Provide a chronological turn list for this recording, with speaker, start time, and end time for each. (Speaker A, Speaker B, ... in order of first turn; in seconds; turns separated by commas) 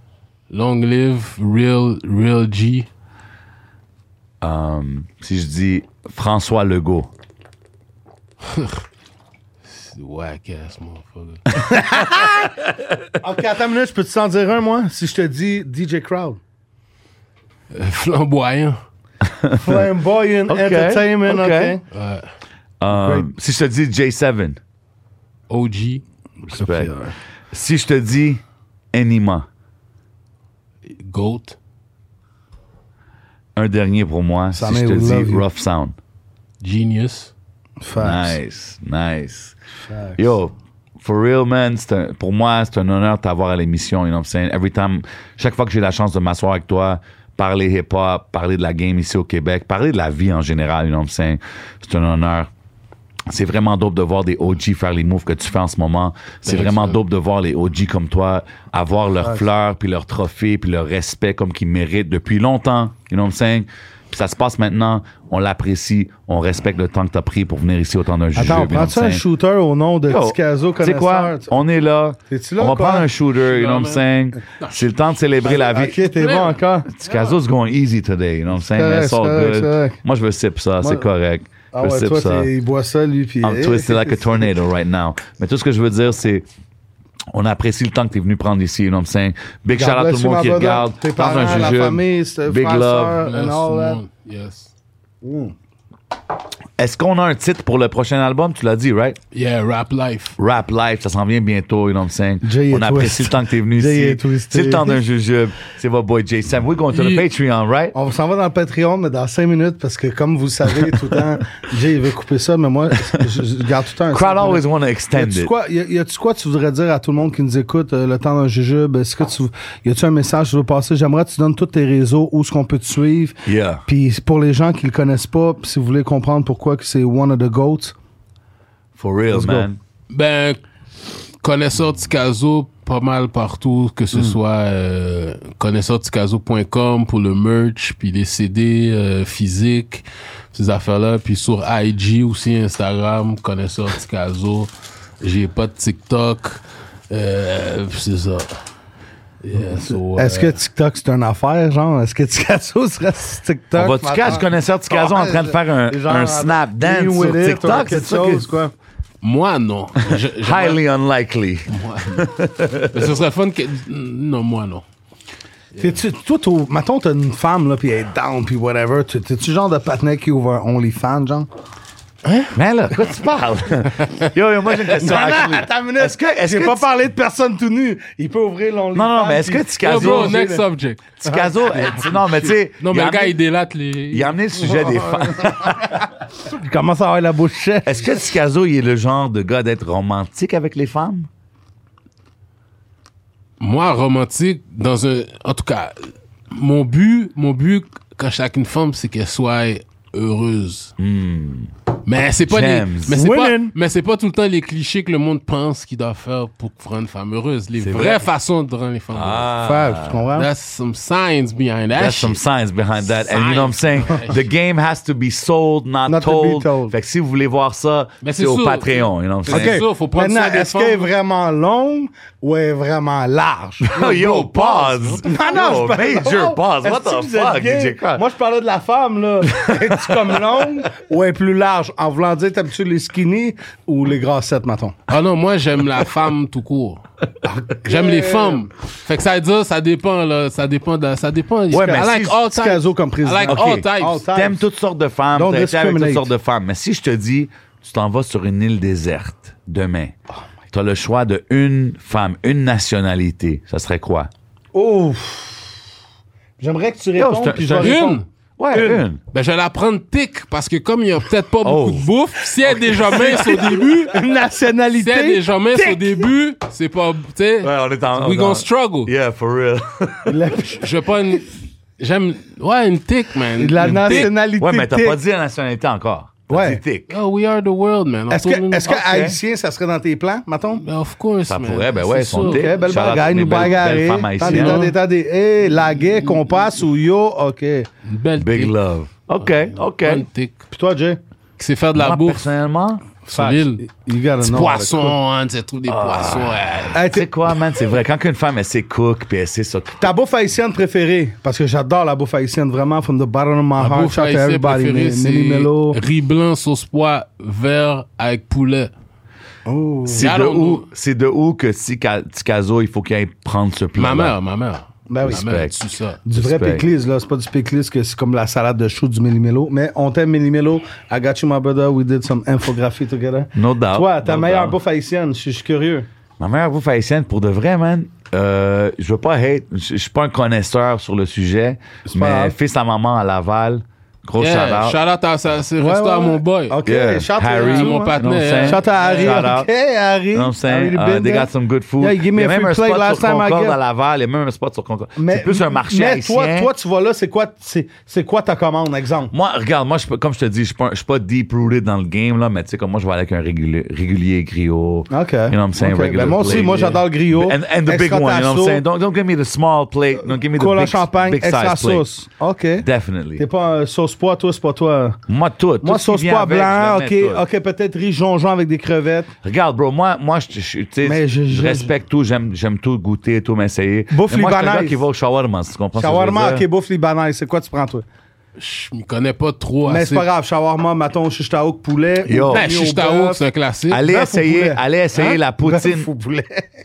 Speaker A: 0.5-2.9, Speaker B: 4.4-7.1, Speaker A: 8.4-8.8, Speaker A: 9.7-11.4, Speaker C: 11.8-12.2, Speaker B: 12.2-13.0, Speaker C: 13.2-16.4, Speaker A: 17.7-18.8, Speaker B: 19.2-19.7, Speaker C: 19.5-21.8, Speaker B: 20.5-21.8, Speaker A: 21.9-22.3, Speaker B: 22.8-24.6, Speaker C: 22.9-23.3, Speaker A: 25.5-26.0, Speaker B: 26.5-26.9, Speaker C: 26.5-27.1, Speaker B: 27.5-28.4, Speaker B: 28.9-29.4, Speaker A: 30.9-31.6, Speaker B: 33.6-36.0, Speaker C: 34.5-35.5, Speaker A: 36.6-37.3, Speaker C: 37.8-38.4, Speaker B: 38.0-39.5, Speaker C: 39.9-40.3, Speaker B: 40.2-52.5, Speaker B: 53.3-69.2, Speaker A: 56.5-57.0, Speaker C: 68.3-71.5, Speaker B: 70.1-76.1, Speaker C: 72.3-73.1, Speaker A: 73.5-74.0, Speaker A: 74.6-74.9, Speaker C: 75.4-76.9, Speaker A: 76.2-76.6, Speaker B: 76.9-82.5, Speaker C: 78.7-80.0, Speaker C: 80.8-81.1, Speaker C: 81.7-84.5, Speaker B: 83.4-86.5, Speaker B: 87.3-93.2, Speaker C: 89.7-94.0, Speaker A: 93.3-94.7, Speaker C: 95.2-95.5, Speaker B: 96.8-99.2, Speaker A: 99.3-100.4, Speaker B: 100.4-108.0, Speaker C: 102.4-105.0, Speaker A: 106.9-107.2, Speaker C: 107.9-127.9, Speaker B: 114.1-115.5, Speaker B: 123.5-123.8, Speaker B: 128.9-129.8, Speaker C: 129.3-129.7, Speaker A: 130.1-130.6, Speaker A: 131.4-148.6, Speaker A: 149.4-150.6, Speaker C: 149.9-158.7, Speaker B: 153.7-158.5, Speaker A: 159.2-160.8, Speaker B: 160.0-163.1, Speaker A: 161.7-162.3, Speaker A: 162.9-164.8, Speaker C: 165.8-171.5, Speaker A: 172.2-172.5, Speaker B: 172.5-176.8, Speaker C: 174.8-180.6, Speaker B: 178.9-180.4, Speaker A: 179.8-181.0, Speaker B: 181.2-183.4, Speaker C: 181.2-181.6, Speaker A: 181.6-184.4, Speaker B: 184.1-186.1, Speaker C: 184.6-188.2, Speaker B: 187.9-191.3, Speaker A: 193.6-200.9, Speaker B: 201.0-201.7, Speaker A: 202.0-209.6, Speaker B: 202.4-203.2, Speaker C: 203.1-203.7, Speaker B: 207.8-208.3, Speaker B: 209.1-210.2, Speaker C: 209.6-210.5, Speaker A: 210.3-212.4, Speaker B: 212.0-219.8, Speaker A: 213.1-214.5, Speaker C: 216.1-216.9, Speaker A: 218.2-221.1, Speaker C: 219.5-223.9, Speaker B: 223.8-228.2, Speaker A: 223.9-225.5, Speaker C: 225.2-235.0, Speaker B: 229.5-230.6, Speaker A: 235.1-237.0, Speaker C: 237.4-238.7, Speaker A: 237.7-244.2, Speaker B: 241.7-242.4, Speaker C: 241.7-244.7, Speaker B: 243.4-250.2, Speaker C: 245.3-246.3, Speaker B: 250.7-254.3, Speaker C: 254.7-255.7, Speaker C: 256.6-259.0, Speaker B: 257.2-258.1, Speaker A: 257.8-258.2, Speaker B: 258.6-259.2, Speaker A: 259.3-264.2, Speaker B: 261.6-262.1, Speaker B: 262.6-263.7, Speaker C: 263.1-266.2, Speaker A: 265.0-269.1, Speaker B: 267.6-270.4, Speaker C: 270.3-271.0, Speaker A: 270.6-274.3, Speaker C: 273.6-275.2, Speaker B: 274.0-277.2, Speaker C: 276.5-276.8, Speaker A: 277.1-278.9, Speaker C: 278.3-280.8, Speaker B: 278.9-279.4, Speaker A: 280.7-283.6, Speaker B: 281.5-284.9, Speaker C: 282.4-287.9, Speaker A: 284.4-284.9, Speaker A: 285.8-286.6, Speaker A: 288.0-288.7, Speaker B: 288.4-290.3, Speaker A: 289.4-290.6, Speaker C: 290.7-291.2, Speaker A: 291.6-292.5, Speaker B: 292.0-293.0, Speaker A: 293.3-293.8, Speaker C: 293.3-295.2, Speaker A: 294.4-297.0, Speaker B: 295.9-300.1, Speaker C: 296.9-297.3, Speaker C: 300.0-306.0, Speaker A: 303.8-308.9, Speaker C: 309.7-310.3, Speaker A: 310.1-310.9, Speaker B: 310.1-314.4, Speaker A: 313.9-316.2, Speaker C: 315.1-315.5, Speaker B: 315.2-315.8, Speaker C: 316.3-326.1, Speaker B: 316.3-316.9, Speaker B: 323.6-324.8, Speaker B: 326.4-335.0, Speaker C: 332.1-332.6, Speaker A: 334.4-336.8, Speaker C: 335.8-343.8, Speaker B: 336.9-339.7, Speaker A: 337.6-339.4, Speaker B: 340.3-346.7, Speaker C: 345.2-349.3, Speaker B: 349.3-362.1, Speaker C: 355.1-358.8, Speaker A: 356.5-357.0, Speaker C: 360.4-365.2, Speaker B: 362.8-363.4, Speaker B: 365.3-367.4, Speaker C: 365.8-369.3, Speaker B: 369.4-376.7, Speaker C: 371.0-371.9, Speaker C: 374.1-375.0, Speaker C: 375.9-378.1, Speaker A: 378.6-380.3, Speaker C: 379.9-383.4, Speaker B: 382.2-382.7, Speaker A: 382.5-384.0, Speaker B: 383.9-386.1, Speaker C: 384.1-384.8, Speaker C: 385.3-386.7